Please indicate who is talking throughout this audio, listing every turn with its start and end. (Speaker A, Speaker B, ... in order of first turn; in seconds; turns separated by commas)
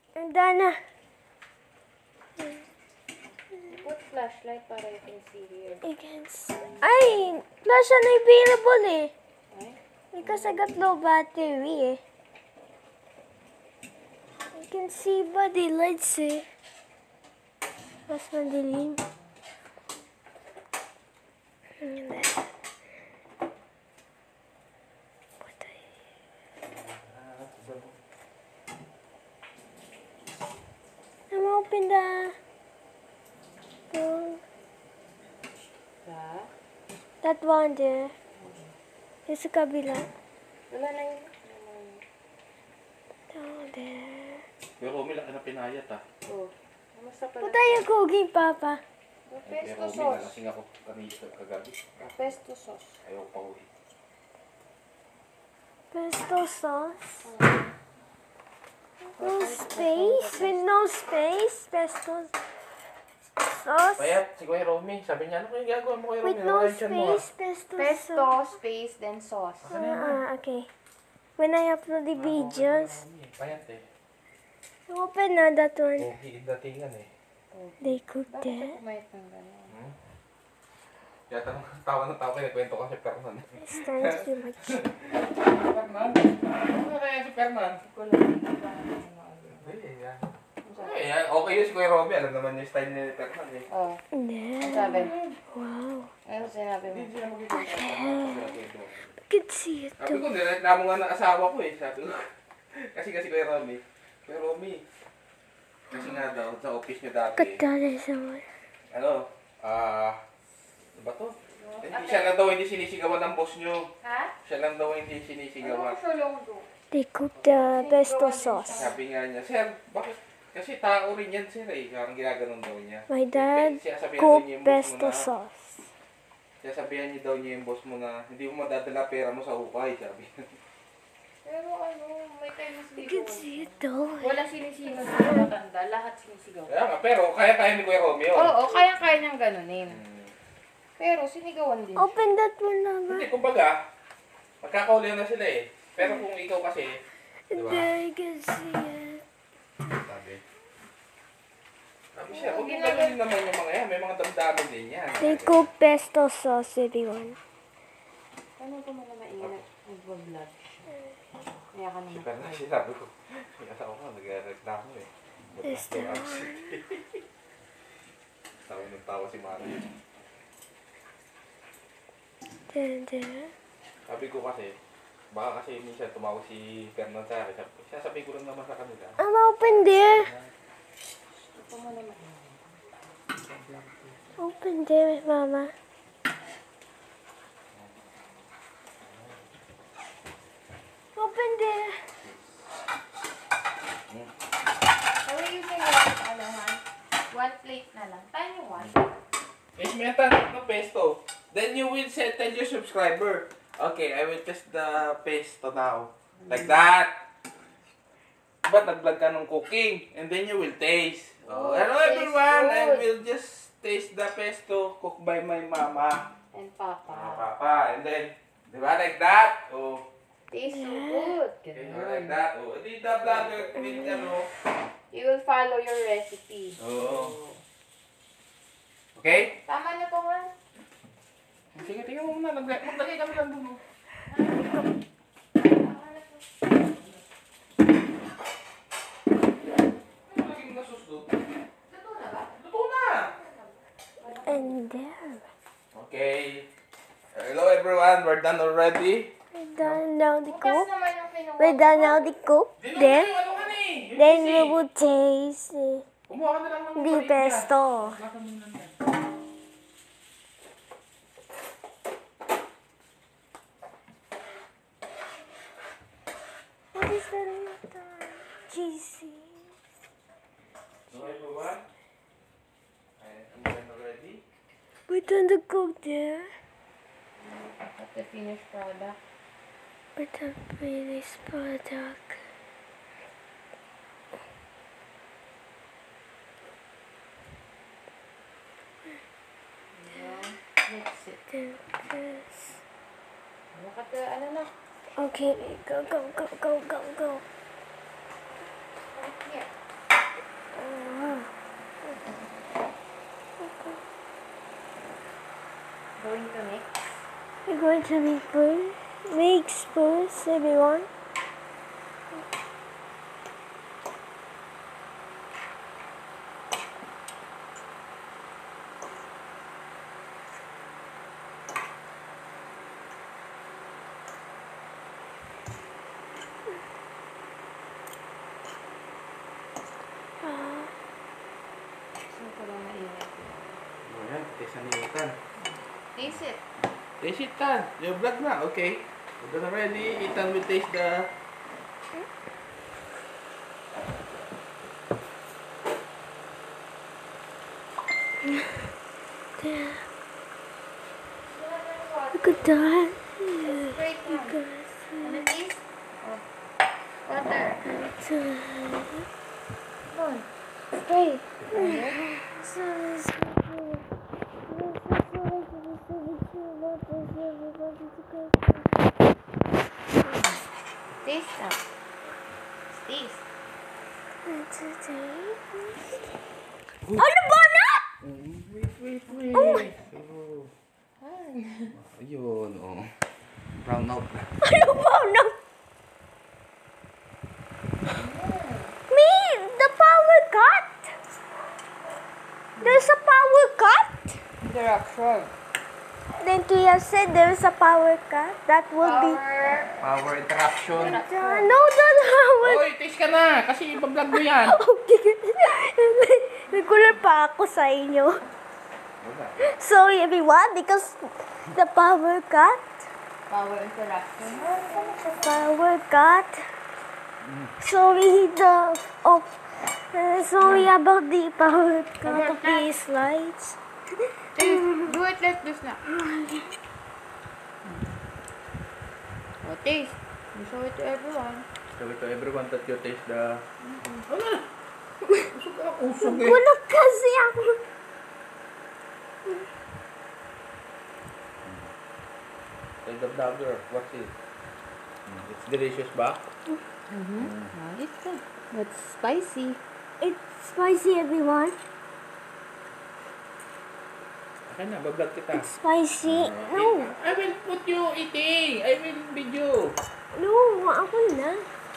Speaker A: 0.1-0.8, Speaker B: 3.7-5.8, Speaker A: 5.8-9.1, Speaker B: 9.5-9.8, Speaker A: 10.1-12.0, Speaker A: 14.5-16.4, Speaker A: 18.1-19.0, Speaker A: 21.8-22.5, Speaker C: 26.6-27.9, Speaker A: 31.3-32.4, Speaker A: 33.9-34.4, Speaker B: 36.0-36.5, Speaker A: 37.2-38.1, Speaker B: 38.4-38.7, Speaker A: 39.3-40.1, Speaker B: 40.7-42.0, Speaker A: 43.3-44.5, Speaker C: 44.8-46.0, Speaker B: 46.2-47.9, Speaker A: 47.4-48.8, Speaker B: 49.3-50.3, Speaker C: 49.4-52.0, Speaker B: 52.0-53.0, Speaker C: 53.0-53.7, Speaker A: 55.9-57.3, Speaker B: 57.2-57.7, Speaker B: 59.2-60.7, Speaker A: 59.2-62.3, Speaker A: 63.4-64.2, Speaker C: 64.0-67.2, Speaker A: 66.2-68.3, Speaker B: 67.8-69.7, Speaker C: 69.6-70.2, Speaker A: 69.7-70.7, Speaker A: 71.4-73.0, Speaker C: 72.1-73.9, Speaker A: 74.9-76.1, Speaker C: 76.0-77.1, Speaker B: 77.5-79.7, Speaker A: 77.8-78.7, Speaker C: 79.7-79.9, Speaker C: 81.3-87.8, Speaker A: 83.6-84.8, Speaker B: 87.8-89.8, Speaker C: 89.5-90.2, Speaker B: 90.6-91.0, Speaker C: 90.8-93.7, Speaker B: 93.7-94.0, Speaker A: 94.1-96.1, Speaker B: 94.6-95.2, Speaker C: 95.0-95.3, Speaker B: 96.2-97.1, Speaker C: 96.9-99.1, Speaker A: 97.5-98.5, Speaker A: 99.3-100.2, Speaker C: 100.0-104.8, Speaker C: 105.9-107.6, Speaker A: 105.9-106.2, Speaker A: 107.3-108.5, Speaker C: 108.9-110.2, Speaker C: 111.0-113.9, Speaker B: 111.5-112.3, Speaker B: 114.0-114.3, Speaker C: 114.4-116.0, Speaker B: 115.6-116.7, Speaker A: 116.9-118.9, Speaker B: 117.4-119.0, Speaker C: 118.7-125.3, Speaker A: 123.1-125.8, Speaker C: 126.6-130.5, Speaker B: 131.4-136.7, Speaker A: 133.0-134.3, Speaker A: 135.1-135.5, Speaker C: 136.7-138.6, Speaker B: 138.3-140.0, Speaker C: 139.9-140.3, Speaker B: 141.0-142.2, Speaker A: 141.9-143.3, Speaker C: 143.1-143.8, Speaker C: 144.6-147.0, Speaker A: 147.5-149.2, Speaker C: 147.5-147.9, Speaker C: 149.8-150.4, Speaker C: 152.1-155.7, Speaker B: 152.3-153.2, Speaker A: 155.2-157.4, Speaker B: 158.6-160.9, Speaker B: 161.7-162.6, Speaker C: 162.1-167.0, Speaker A: 165.6-166.8, Speaker C: 168.7-169.8, Speaker A: 172.7-173.5, Speaker C: 174.1-174.8, Speaker C: 175.3-180.5, Speaker A: 179.2-180.3, Speaker B: 181.5-182.6, Speaker C: 183.6-183.9, Speaker A: 184.4-185.7, Speaker A: 191.1-192.1, Speaker B: 195.2-199.0, Speaker C: 199.8-207.1, Speaker B: 206.4-206.8, Speaker C: 208.6-216.3, Speaker B: 211.4-213.1, Speaker B: 216.5-217.5, Speaker C: 217.1-220.1, Speaker B: 220.5-222.4, Speaker A: 220.7-221.3, Speaker C: 221.7-224.5, Speaker A: 224.0-224.3, Speaker B: 225.1-227.5, Speaker C: 226.8-227.4, Speaker C: 229.2-229.5, Speaker B: 229.5-230.5, Speaker C: 231.7-233.8, Speaker B: 234.3-234.8, Speaker B: 235.6-236.8, Speaker C: 240.3-241.4, Speaker B: 241.9-242.5, Speaker C: 242.5-243.3, Speaker B: 244.2-244.8, Speaker A: 244.4-245.4, Speaker C: 245.9-246.7, Speaker C: 247.3-250.0, Speaker A: 249.5-250.9, Speaker B: 250.4-252.3, Speaker A: 251.6-253.3, Speaker C: 252.8-254.8, Speaker A: 254.1-256.0, Speaker C: 256.3-258.9, Speaker A: 256.9-258.2, Speaker A: 266.9-269.7, Speaker C: 271.1-271.8, Speaker C: 273.2-274.4, Speaker A: 275.1-276.5, Speaker B: 277.4-279.2, Speaker A: 280.1-282.4, Speaker B: 289.9-291.4, Speaker A: 291.5-292.8, Speaker B: 293.7-294.7, Speaker A: 295.2-297.4, Speaker B: 299.1-299.7, Speaker A: 300.7-301.5, Speaker A: 303.6-304.0, Speaker B: 306.2-307.0, Speaker A: 307.7-311.1, Speaker A: 330.4-330.9, Speaker B: 332.2-333.8, Speaker C: 334.0-335.4, Speaker B: 336.1-336.6, Speaker C: 337.2-341.3, Speaker A: 348.4-348.8, Speaker A: 349.6-350.0, Speaker B: 351.4-352.8, Speaker A: 352.3-355.5, Speaker B: 353.6-354.6, Speaker B: 355.2-356.4, Speaker B: 357.2-357.8, Speaker A: 357.8-359.3, Speaker B: 360.1-362.2, Speaker A: 361.7-364.1, Speaker A: 364.6-368.9, Speaker B: 371.2-371.8, Speaker B: 372.9-373.4, Speaker A: 374.4-376.2, Speaker A: 377.2-378.0, Speaker C: 378.2-380.7, Speaker A: 379.5-379.9, Speaker B: 381.2-381.9, Speaker C: 381.9-383.2, Speaker C: 383.7-384.6, Speaker A: 384.6-385.5, Speaker B: 388.1-388.9, Speaker A: 389.1-391.1, Speaker B: 392.8-393.0, Speaker A: 392.8-394.4, Speaker B: 394.6-395.5, Speaker A: 396.4-399.4, Speaker B: 399.0-400.0, Speaker C: 400.0-401.2, Speaker A: 400.9-402.8, Speaker B: 400.9-401.8, Speaker C: 402.6-404.8, Speaker A: 404.3-408.4, Speaker B: 406.7-407.1, Speaker C: 409.2-409.7, Speaker A: 409.6-412.8, Speaker B: 413.5-415.5, Speaker A: 415.1-416.6, Speaker C: 417.4-417.7, Speaker A: 417.8-423.8, Speaker C: 420.6-420.9, Speaker B: 422.2-422.9, Speaker A: 424.5-425.1, Speaker B: 424.6-426.0, Speaker A: 426.1-426.7, Speaker B: 429.6-431.6, Speaker C: 431.9-433.6, Speaker B: 433.8-434.2, Speaker C: 434.2-434.7, Speaker C: 435.3-436.6, Speaker A: 436.2-437.8, Speaker C: 443.0-444.3, Speaker C: 445.3-446.4, Speaker B: 447.1-449.8, Speaker C: 447.4-447.7, Speaker A: 450.2-451.8, Speaker C: 454.7-455.7, Speaker A: 455.5-457.1, Speaker C: 456.2-460.0, Speaker A: 460.3-461.7